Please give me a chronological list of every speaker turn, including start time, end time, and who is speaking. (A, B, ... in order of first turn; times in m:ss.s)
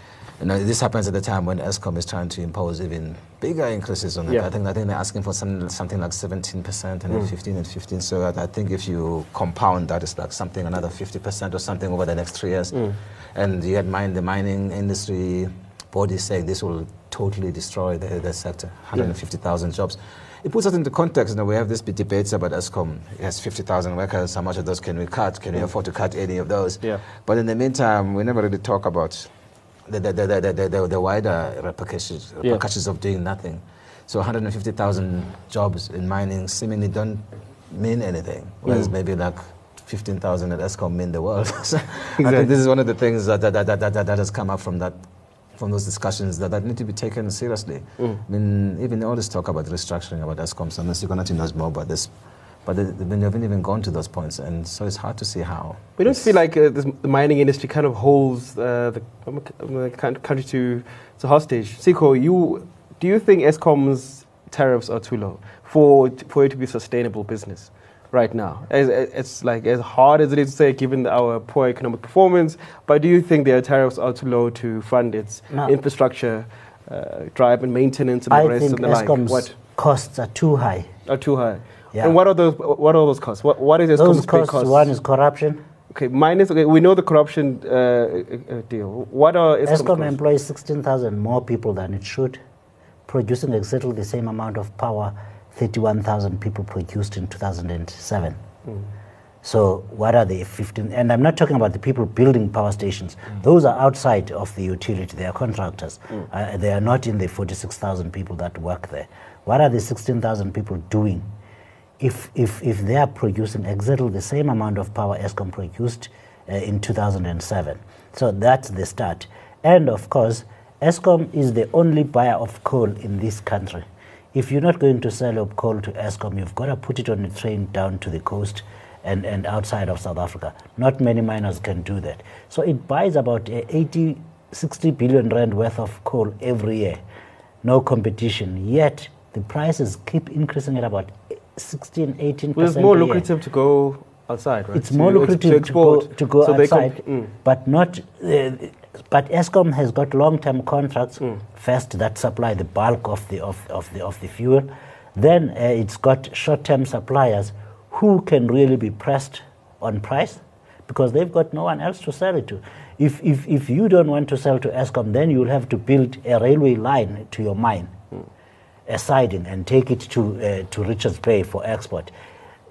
0:00.4-0:56.3 A
0:38.6-0:38.9 B
0:42.2-0:42.5 B
0:56.0-1:19.5 B
1:18.3-1:20.9 C
1:21.1-1:24.9 B
1:23.9-1:25.6 C
1:25.9-1:30.2 B
1:29.6-1:32.4 C
1:33.1-1:38.4 C
1:39.4-1:51.3 C
1:52.0-2:17.0 C
2:17.6-2:23.2 C
2:22.6-2:27.3 B
2:24.7-2:47.9 C
2:48.9-2:52.1 C